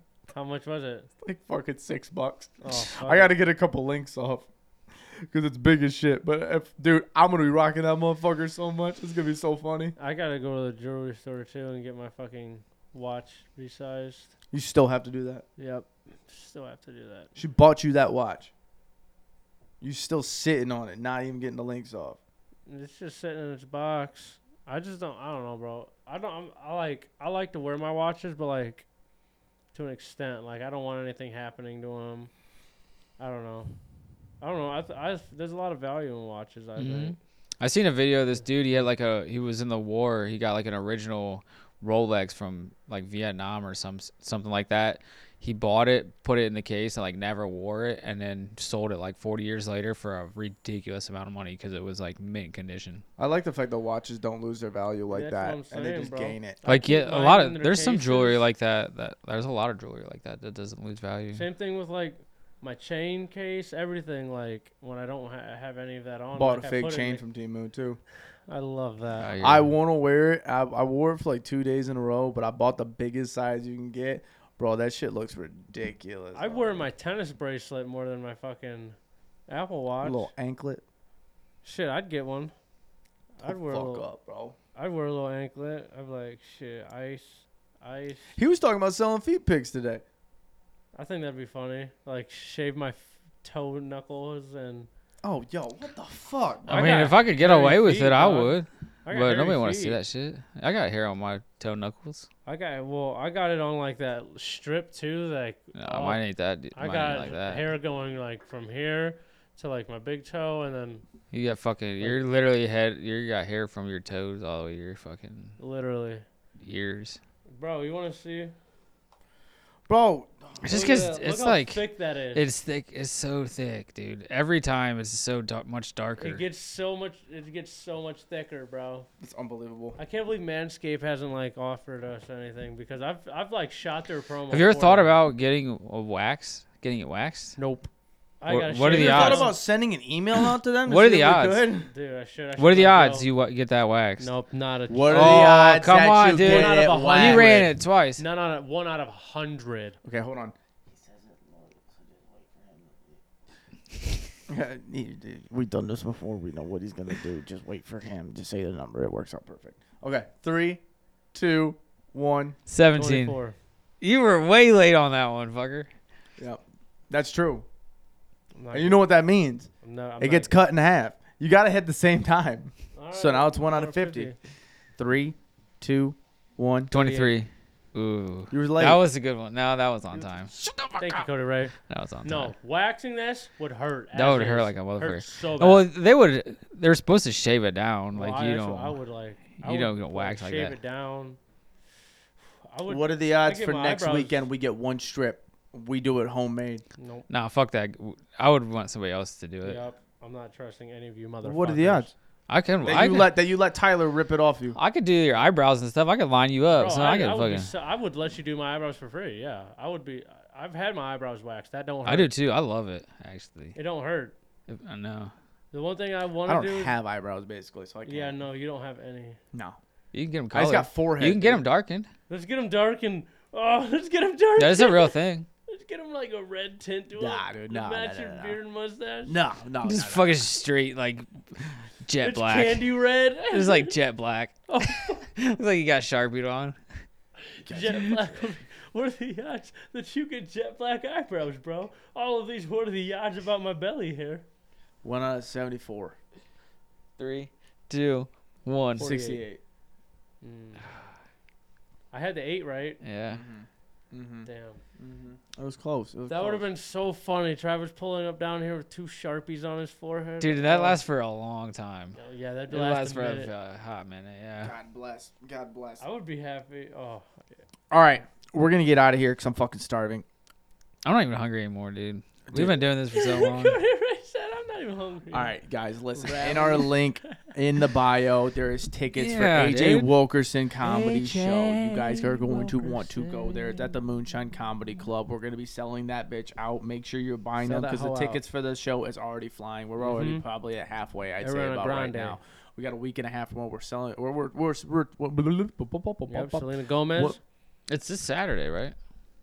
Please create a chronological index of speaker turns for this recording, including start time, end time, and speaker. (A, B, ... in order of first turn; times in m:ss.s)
0:00.3-0:01.1 A
0:01.2-0:04.5 B
0:02.6-0:03.4 A
0:05.2-0:09.9 B
0:10.0-0:14.3 A
0:14.5-0:15.4 B
0:15.6-0:17.3 A
0:17.4-0:18.5 B
0:19.8-0:22.2 B
0:22.7-0:28.9 A
0:29.7-0:32.3 A
0:33.2-0:33.7 A
0:34.4-0:37.2 A
0:36.8-0:53.0 C
0:53.2-0:56.6 B
0:55.1-0:58.4 A
0:56.6-1:01.4 C
1:01.3-1:07.2 A
1:06.4-1:08.0 B
1:08.5-1:09.3 A
1:09.2-1:09.7 C
1:09.4-1:16.9 B
1:16.3-1:19.0 A
1:19.5-1:20.3 A
1:20.0-1:20.8 B
1:21.6-1:22.5 A
1:23.4-1:24.1 A
1:23.4-1:24.6 B
1:24.8-1:28.4 A
1:28.4-1:30.0 B
1:30.9-1:34.9 A
1:35.2-1:37.0 B
1:36.7-1:40.0 A
1:36.7-1:42.3 C
1:42.4-1:46.2 A
1:45.8-1:47.7 C
1:46.7-1:51.0 A
1:51.3-1:55.5 C
1:55.6-1:56.2 A
1:56.6-1:57.2 C
1:57.5-1:58.5 A
1:59.9-2:00.8 B
2:00.6-2:06.4 C
2:00.6-2:02.4 A
2:06.2-2:09.1 A
2:09.2-2:10.0 B
2:10.0-2:15.1 A
2:14.5-2:17.6 C
2:17.6-2:17.9 A
2:18.4-2:19.6 A
2:18.5-2:19.5 C
2:18.8-2:21.9 B
2:20.8-2:21.6 C
2:21.8-2:23.3 A
2:22.6-2:24.3 C
2:24.2-2:25.6 A
2:24.9-2:27.7 B
2:25.1-2:28.2 C
2:26.4-2:30.0 A
2:30.0-2:33.2 B
2:34.5-2:40.8 B
2:41.3-2:42.6 B
2:42.7-2:43.4 C
2:42.9-2:43.6 A
2:44.0-2:45.9 C
2:46.4-2:47.6 B
2:48.6-2:49.0 A
2:48.7-2:54.3 B
2:49.8-2:50.5 A
2:52.9-2:54.3 A
2:55.0-2:56.9 B
2:56.9-3:01.2 C
2:56.9-2:57.3 A
2:58.5-2:59.0 B
3:01.0-3:05.9 A
3:01.9-3:02.5 C
3:04.1-3:09.0 C
3:08.1-3:11.4 A
3:09.6-3:10.8 C
3:12.7-3:14.4 A
3:12.9-3:16.8 B
3:17.0-3:17.2 A
3:17.3-3:19.8 C
3:19.6-3:22.1 A
3:21.4-3:22.1 B
3:22.5-3:23.3 C
3:22.8-3:24.8 B
3:24.8-3:27.7 C
3:26.7-3:32.3 A
3:32.0-3:33.7 C
3:33.7-3:34.4 A
3:34.7-3:35.3 C
3:35.7-3:37.0 A
3:36.4-3:38.4 B
3:38.0-3:39.4 A
3:39.5-3:39.8 B
3:40.1-3:42.1 C
3:40.5-3:41.6 B
3:42.3-3:45.1 A
3:44.6-3:45.5 C
3:45.7-3:49.4 A
3:47.2-3:48.6 B
3:49.2-3:50.4 B
3:49.8-3:52.9 C
3:52.2-3:54.0 A
3:53.5-3:56.8 C
3:54.7-3:55.2 A
3:57.4-4:04.4 A
3:57.7-3:58.4 B
4:05.0-4:06.2 B
4:07.2-4:09.1 C
4:09.0-4:09.4 A
4:09.0-4:09.6 B
4:10.4-4:10.8 A
4:12.1-4:13.0 A
4:13.0-4:13.4 C
4:13.3-4:16.7 B
4:14.4-4:14.8 A
4:16.3-4:21.0 A
4:20.4-4:22.2 C
4:22.2-4:23.5 A
4:22.7-4:24.7 C
4:24.6-4:26.0 B
4:26.0-4:27.6 A
4:27.9-4:30.2 B
4:31.0-4:33.8 C
4:32.5-4:32.8 B
4:33.1-4:35.5 A
4:35.3-4:57.4 B
4:36.2-4:37.3 A
4:39.1-4:40.1 C
4:40.8-4:43.2 C
4:47.6-4:48.4 A
4:50.0-4:50.4 A
4:51.4-4:52.4 A
4:56.3-4:57.4 A
4:57.9-4:58.9 C